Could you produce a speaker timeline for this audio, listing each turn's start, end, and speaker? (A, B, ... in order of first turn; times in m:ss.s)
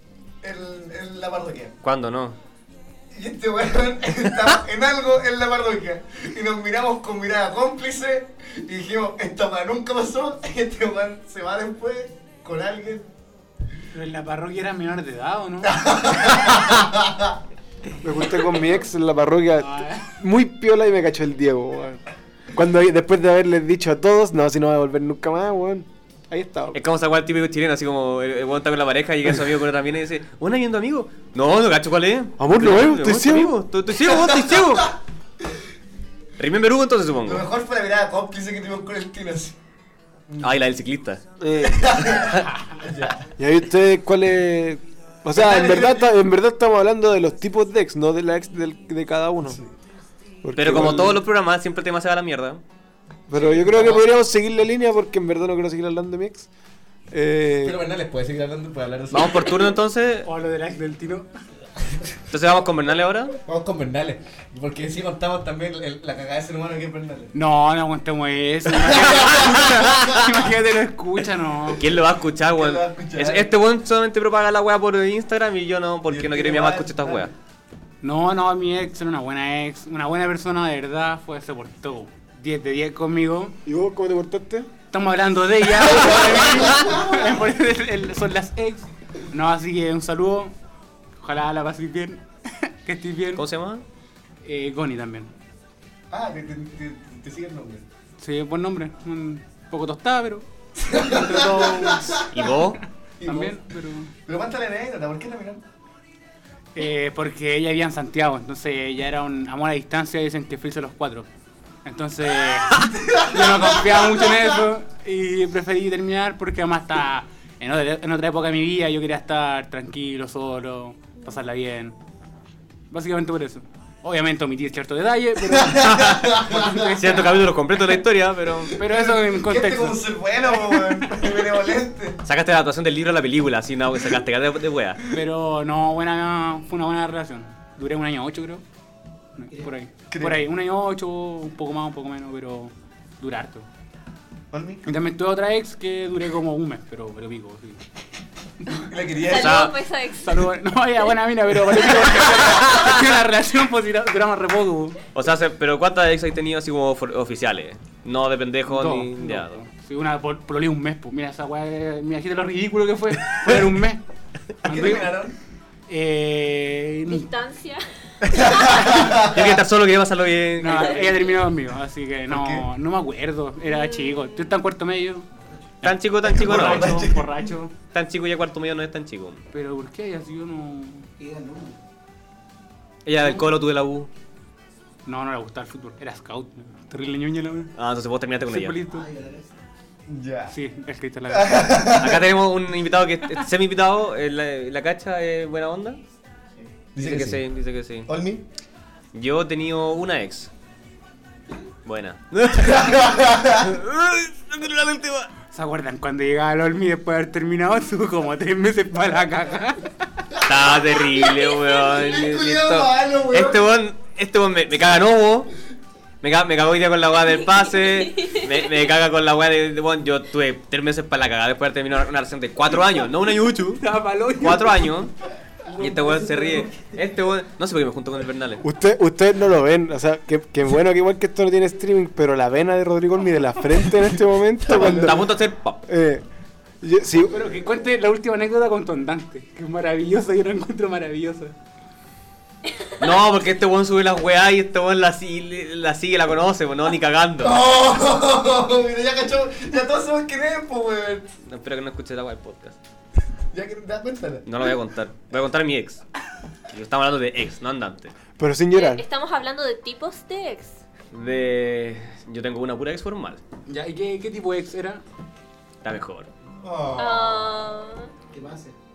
0:00.4-0:01.7 A
0:01.8-0:02.4 B
0:03.1-0:13.0 A
0:13.9-0:15.8 C
0:15.6-0:17.3 A
0:18.0-0:22.0 D
0:19.6-0:20.1 C
0:22.5-0:26.8 D
0:26.7-0:34.9 B
0:32.4-0:33.6 D
0:34.0-0:34.9 A
0:36.4-0:37.4 B
0:37.2-0:39.6 A
0:40.3-0:40.6 A
0:40.4-0:41.2 B
0:41.4-0:42.2 D
0:41.6-0:43.2 A
0:43.4-0:49.6 D
0:45.3-0:46.1 A
0:49.4-0:49.7 A
0:50.4-0:51.2 D
0:50.5-0:52.6 B
0:53.3-0:56.5 D
0:53.3-0:54.0 A
0:57.1-0:57.8 D
0:57.6-0:59.7 A
0:59.1-1:00.3 B
1:00.2-1:01.3 C
1:02.3-1:03.4 B
1:03.4-1:07.3 A
1:07.3-1:11.8 C
1:08.7-1:10.3 A
1:09.0-1:10.2 B
1:11.8-1:17.3 B
1:12.5-1:13.5 A
1:16.1-1:17.3 A
1:18.0-1:23.6 C
1:23.6-1:24.7 D
1:24.9-1:30.5 C
1:26.0-1:27.3 A
1:31.2-1:33.4 C
1:33.4-1:33.8 B
1:34.4-1:35.3 C
1:36.1-1:37.8 A
1:38.2-1:40.5 C
1:40.8-1:42.3 A
1:41.1-1:42.3 C
1:42.3-1:42.8 B
1:43.2-1:43.7 A
1:43.2-1:44.1 C
1:44.2-1:45.6 A
1:46.7-1:51.3 C
1:51.8-2:02.0 C
1:53.1-1:53.4 A
2:02.9-2:05.9 C
2:05.5-2:07.4 A
2:05.8-2:08.8 B
2:06.5-2:07.1 C
2:08.8-2:11.0 C
2:08.8-2:12.2 A
2:12.2-2:15.0 B
2:15.1-2:18.6 C
2:19.4-2:23.6 C
2:20.1-2:20.4 A
2:24.5-2:24.8 A
2:24.8-2:27.8 C
2:28.8-2:29.7 A
2:29.2-2:30.3 E
2:29.3-2:29.7 B
2:30.2-2:35.0 C
2:32.6-2:32.9 B
2:35.1-2:39.6 B
2:38.6-2:44.0 C
2:44.6-2:45.2 C
2:44.6-2:45.3 A
2:45.9-2:47.2 C
2:47.1-2:47.8 E
2:48.2-2:49.6 A
2:48.7-2:51.2 B
2:50.6-2:55.2 C
2:51.0-2:51.3 E
2:52.3-2:52.6 A
2:55.4-2:55.6 F
2:55.8-2:57.0 B
2:56.2-2:57.5 A
2:56.3-2:57.7 C
2:57.9-2:59.4 B
2:59.5-3:01.1 C
3:01.2-3:01.8 F
3:03.0-3:04.1 B
3:05.0-3:07.7 C
3:07.8-3:08.8 B
3:08.4-3:09.1 C
3:08.8-3:09.5 F
3:10.1-3:10.6 A
3:10.5-3:11.9 C
3:11.3-3:12.3 A
3:12.0-3:16.0 B
3:16.9-3:17.4 A
3:17.0-3:18.1 B
3:18.1-3:18.4 A
3:19.1-3:20.5 B
3:21.8-3:25.3 B
3:22.5-3:23.7 A
3:25.5-3:29.9 C
3:30.4-3:35.5 B
3:31.3-3:31.9 E
3:31.9-3:33.6 A
3:36.2-3:43.8 B
3:43.8-3:45.0 C
3:44.4-3:45.1 B
3:45.8-3:46.7 C
3:45.8-3:48.6 B
3:48.6-3:55.3 D
3:54.7-3:55.8 B
3:54.7-3:55.2 A
3:55.9-3:56.2 D
3:56.8-3:57.4 D
3:57.3-4:01.6 C
4:03.0-4:07.6 B
4:07.4-4:11.3 A
4:11.4-4:12.8 B
4:13.5-4:14.4 A
4:14.4-4:16.0 B
4:16.7-4:18.1 B
4:18.4-4:19.0 D
4:18.7-4:20.8 E
4:21.1-4:23.4 B
4:23.7-4:25.0 C
4:25.8-4:26.3 B
4:26.6-4:27.5 A
4:27.0-4:28.1 E
4:28.3-4:28.8 F